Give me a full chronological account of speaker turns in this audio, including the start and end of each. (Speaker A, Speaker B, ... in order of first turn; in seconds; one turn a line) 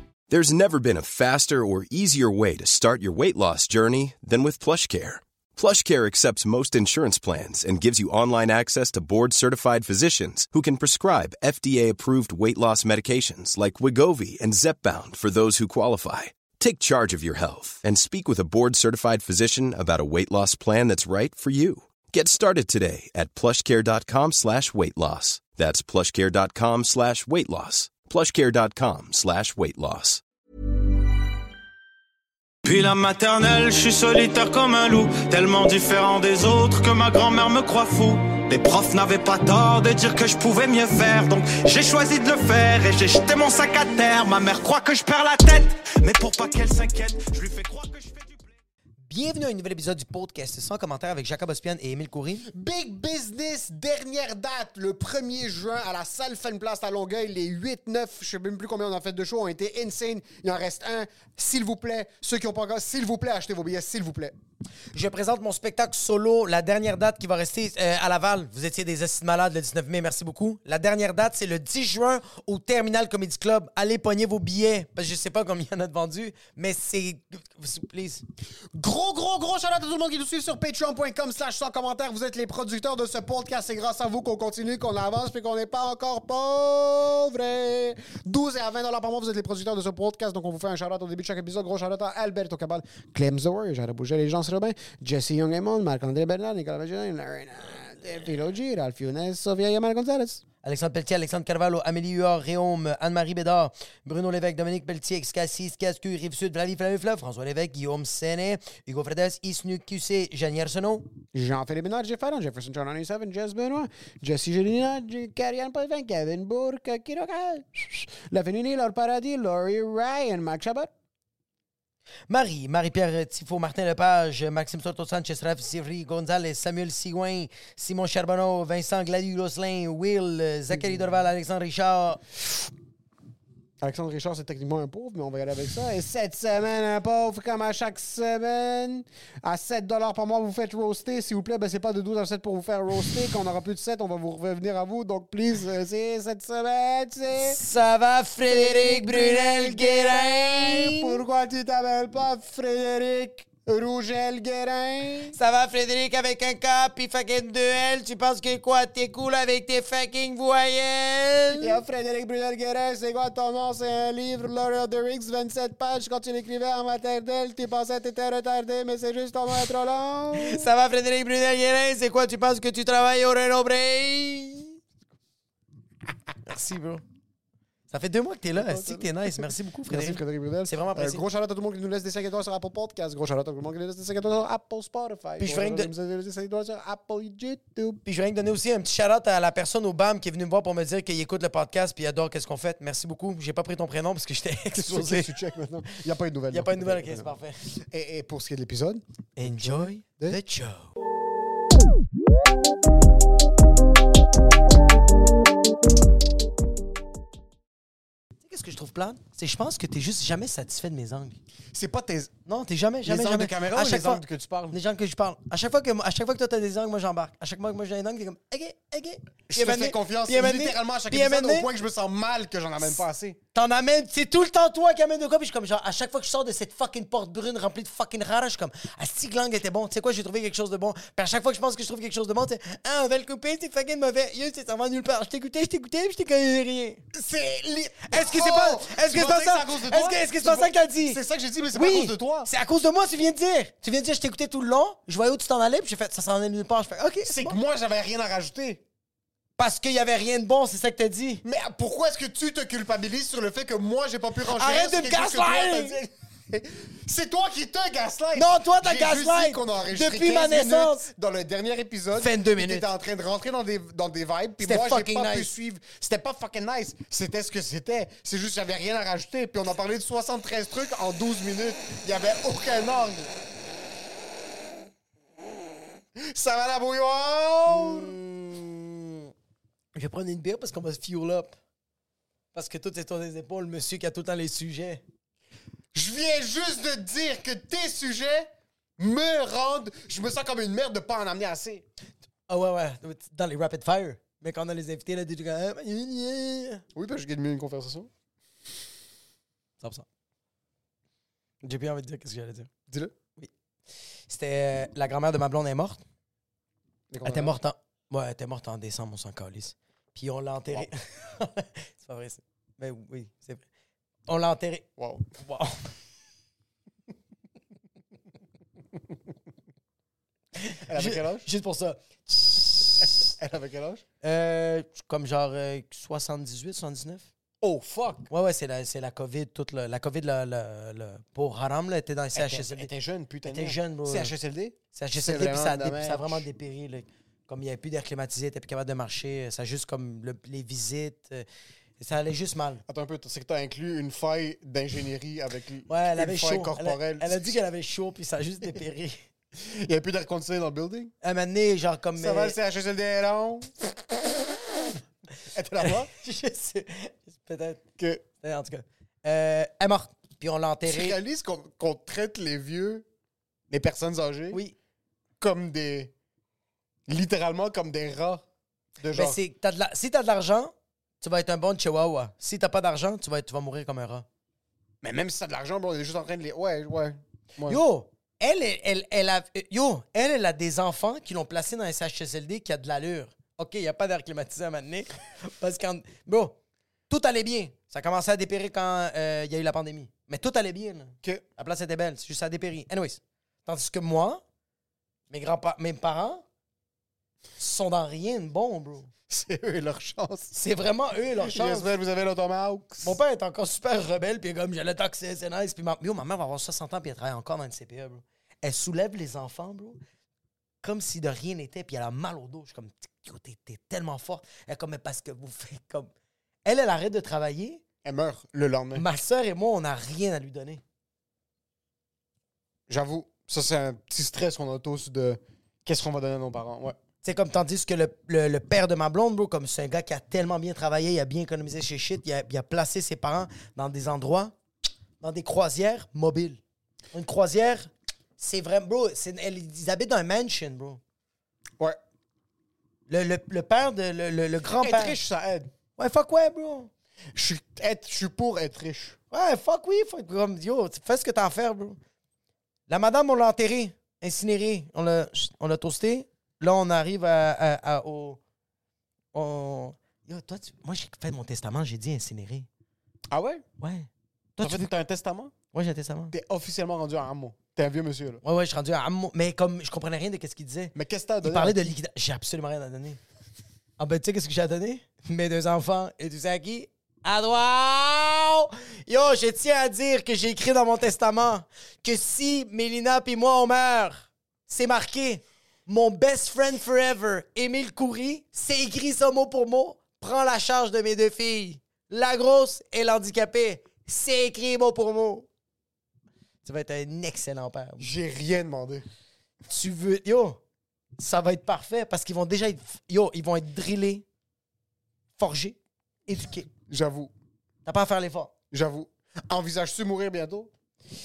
Speaker A: 0.3-30.2
Speaker B: 32.6-48.5
Speaker C: 49.1-52.5
Speaker D: 52.5-64.3
Speaker C: 64.9-78.2
Speaker D: 78.7-100.4
Speaker C: 100.6-111.1
Speaker D: 111.3-120.9
Speaker C: 122.3-132.2
Speaker D: 133.8-147.6
Speaker C: 147.4-151.2
Speaker D: 148.5-155.4
Speaker C: 155.3-161.8
Speaker D: 161.6-170.7
Speaker C: 170.3-174.8
Speaker C: 176.5-177.0
Speaker C: 177.9-181.2
Speaker D: 178.6-188.0
Speaker C: 185.4-185.9
Speaker C: 188.1-195.3
Speaker D: 194.7-200.4
Speaker C: 196.5-197.6
Speaker C: 199.4-200.9
Speaker C: 208.4-211.4
Speaker D: 211.7-212.3
Speaker C: 212.5-221.7
Speaker D: 213.0-214.8
Speaker D: 219.5-223.4
Speaker C: 223.5-237.0
Speaker D: 237.1-242.5
Speaker C: 238.1-241.2
Speaker C: 241.7-247.6
Speaker D: 247.2-248.8
Speaker C: 249.6-251.4
Speaker D: 251.4-273.3
Speaker C: 254.5-256.0
Speaker C: 258.4-261.1
Speaker C: 262.2-262.9
Speaker C: 264.6-265.5
Speaker D: 276.2-278.1
Speaker C: 277.7-279.3
Speaker C: 279.9-281.6
Speaker C: 282.5-285.0
Speaker D: 285.9-291.9
Speaker C: 292.5-296.8
Speaker D: 296.9-298.1
Speaker C: 299.8-300.1
Speaker C: 301.6-302.7
Speaker D: 302.9-303.1
Speaker C: 304.3-306.0
Speaker D: 307.1-307.6
Speaker C: 307.2-313.6
Speaker C: 314.3-314.9
Speaker D: 315.0-315.2
Speaker C: 315.4-315.8
Speaker C: 320.6-323.3
Speaker D: 320.9-321.5
Speaker D: 323.0-324.0
Speaker C: 324.2-327.3
Speaker D: 327.6-328.3
Speaker C: 328.3-332.9
Speaker D: 332.3-336.4
Speaker C: 333.5-334.3
Speaker C: 334.9-341.5
Speaker C: 342.0-342.8
Speaker D: 342.9-347.6
Speaker C: 345.9-349.2
Speaker D: 349.6-351.1
Speaker C: 351.2-352.6
Speaker D: 352.1-354.1
Speaker D: 355.5-356.1
Speaker C: 355.9-357.8
Speaker D: 358.0-358.2
Speaker C: 358.4-361.2
Speaker D: 360.9-363.1
Speaker D: 363.7-364.6
Speaker D: 365.4-366.1
Speaker D: 367.1-368.4
Speaker D: 369.0-369.4
Speaker C: 369.1-374.3
Speaker D: 375.0-377.8
Speaker C: 377.6-386.6
Speaker C: 387.1-394.4
Speaker C: 395.3-396.4
Speaker C: 397.6-399.1
Speaker D: 399.3-400.6
Speaker C: 400.6-401.9
Speaker D: 401.4-403.2
Speaker C: 403.0-410.0
Speaker C: 410.8-416.1
Speaker C: 416.6-417.8
Speaker D: 418.0-419.1
Speaker C: 418.9-420.8
Speaker D: 422.9-427.0
Speaker C: 427.2-434.6
Speaker C: 435.2-436.6
Speaker C: 437.1-441.0
Speaker C: 443.1-445.2
Speaker D: 444.8-445.7
Speaker C: 446.0-446.9
Speaker D: 447.4-449.2
Speaker C: 449.3-452.0
Speaker C: 452.9-458.4
Speaker C: 459.3-462.7
Speaker D: 463.3-463.6
Speaker C: 463.8-464.9
Speaker D: 464.6-465.5
Speaker C: 465.7-466.3
Speaker D: 466.3-468.4
Speaker C: 468.4-473.2
Speaker D: 470.9-471.9
Speaker C: 474.0-495.5
Speaker C: 496.6-498.1
Speaker D: 498.0-499.1
Speaker C: 499.7-500.6
Speaker C: 501.2-504.2
Speaker C: 505.4-505.8
Speaker C: 506.3-506.7
Speaker D: 506.9-507.3
Speaker C: 507.9-508.5
Speaker D: 508.7-510.7